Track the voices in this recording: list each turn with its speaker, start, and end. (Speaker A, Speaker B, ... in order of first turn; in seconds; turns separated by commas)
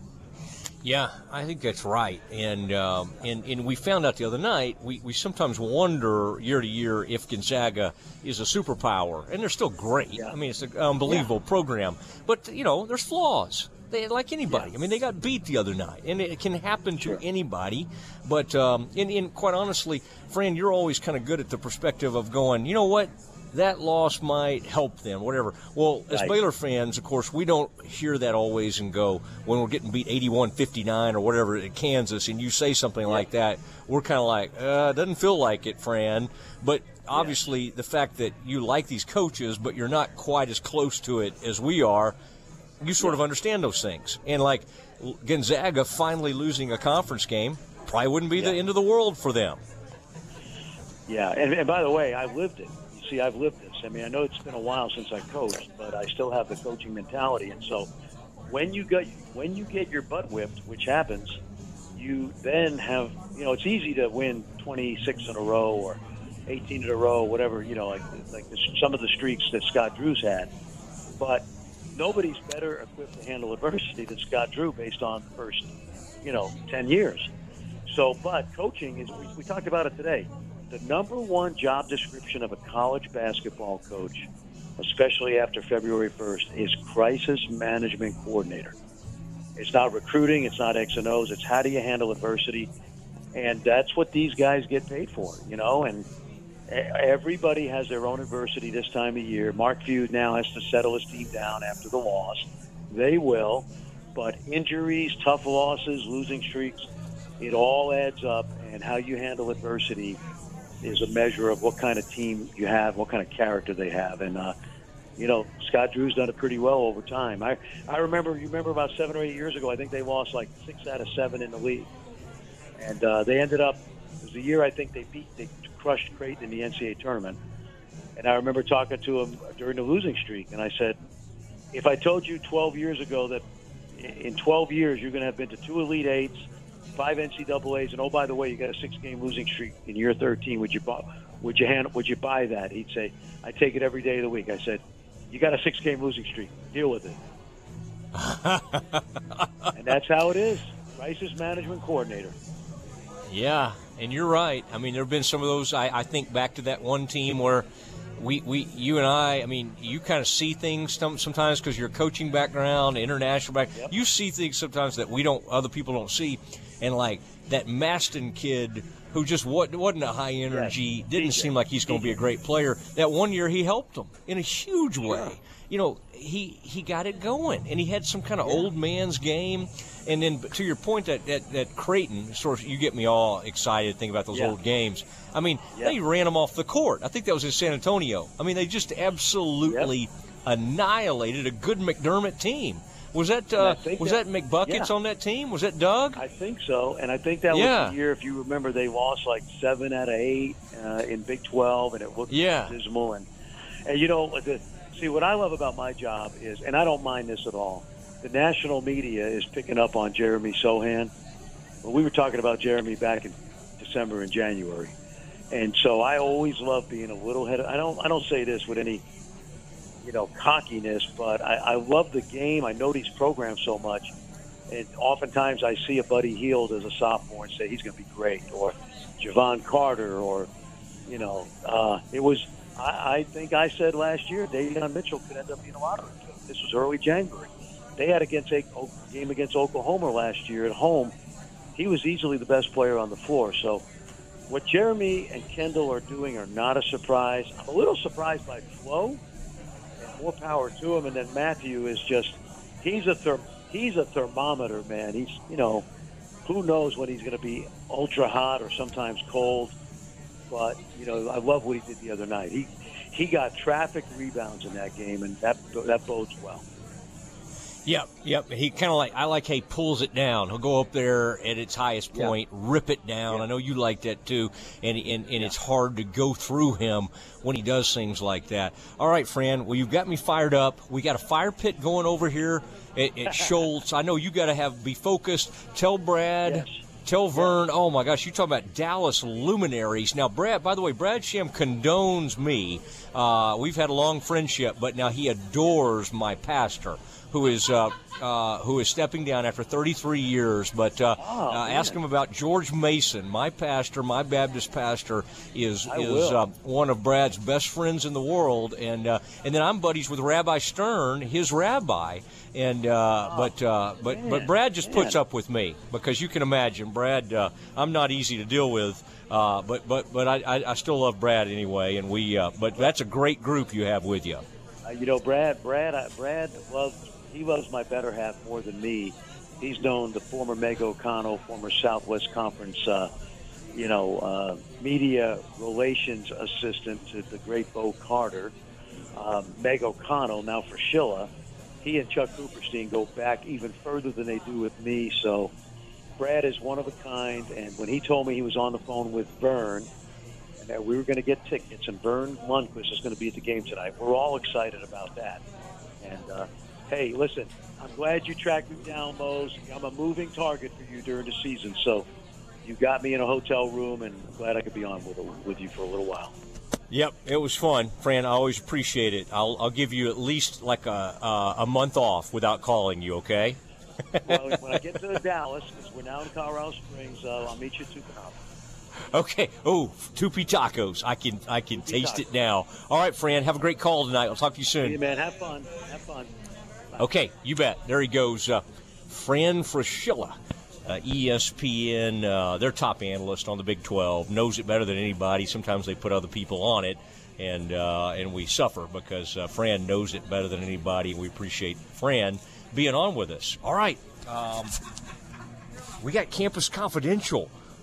Speaker A: 0.8-42.1, Speaker B: 37.1-37.4, Speaker A: 42.8-49.6, Speaker B: 51.1-57.9, Speaker B: 58.5-61.4, Speaker B: 62.0-70.5, Speaker B: 71.2-75.7, Speaker B: 76.2-77.3, Speaker B: 77.9-84.3, Speaker B: 84.8-88.7, Speaker B: 89.6-92.7, Speaker B: 93.3-96.0, Speaker B: 96.7-106.9, Speaker B: 107.4-110.2, Speaker B: 110.8-114.5, Speaker B: 115.2-121.9, Speaker B: 122.8-127.4, Speaker B: 128.2-131.0, Speaker B: 131.7-133.4, Speaker B: 134.0-136.5, Speaker B: 137.0-144.8, Speaker B: 145.3-147.2, Speaker A: 148.2-149.0, Speaker B: 149.8-152.3, Speaker A: 153.3-157.7, Speaker A: 158.2-196.2, Speaker B: 170.5-172.1, Speaker B: 175.0-175.3, Speaker B: 189.6-189.9, Speaker B: 193.6-194.9, Speaker B: 196.2-203.2, Speaker A: 197.5-197.9, Speaker A: 202.3-202.7, Speaker B: 203.9-211.1, Speaker B: 211.8-214.9, Speaker B: 215.5-219.0, Speaker B: 220.0-224.1, Speaker B: 224.7-230.5, Speaker B: 231.1-241.1, Speaker B: 241.8-243.8, Speaker B: 244.5-249.2, Speaker B: 250.0-255.8, Speaker B: 256.5-259.7, Speaker B: 260.5-266.6, Speaker A: 267.9-324.4, Speaker B: 286.4-286.8, Speaker B: 301.2-302.0, Speaker B: 305.9-306.4, Speaker B: 314.1-315.2, Speaker B: 324.9-333.1, Speaker B: 333.8-338.5, Speaker B: 339.2-341.3, Speaker B: 341.8-345.5, Speaker B: 346.2-349.9, Speaker B: 350.6-355.4, Speaker B: 356.0-362.1, Speaker B: 362.6-366.3, Speaker A: 366.9-373.6, Speaker A: 374.1-374.8, Speaker B: 374.2-378.4, Speaker A: 379.1-385.0, Speaker B: 381.7-382.2, Speaker B: 384.8-386.3, Speaker A: 387.0-390.4, Speaker A: 390.9-404.7, Speaker A: 406.0-407.5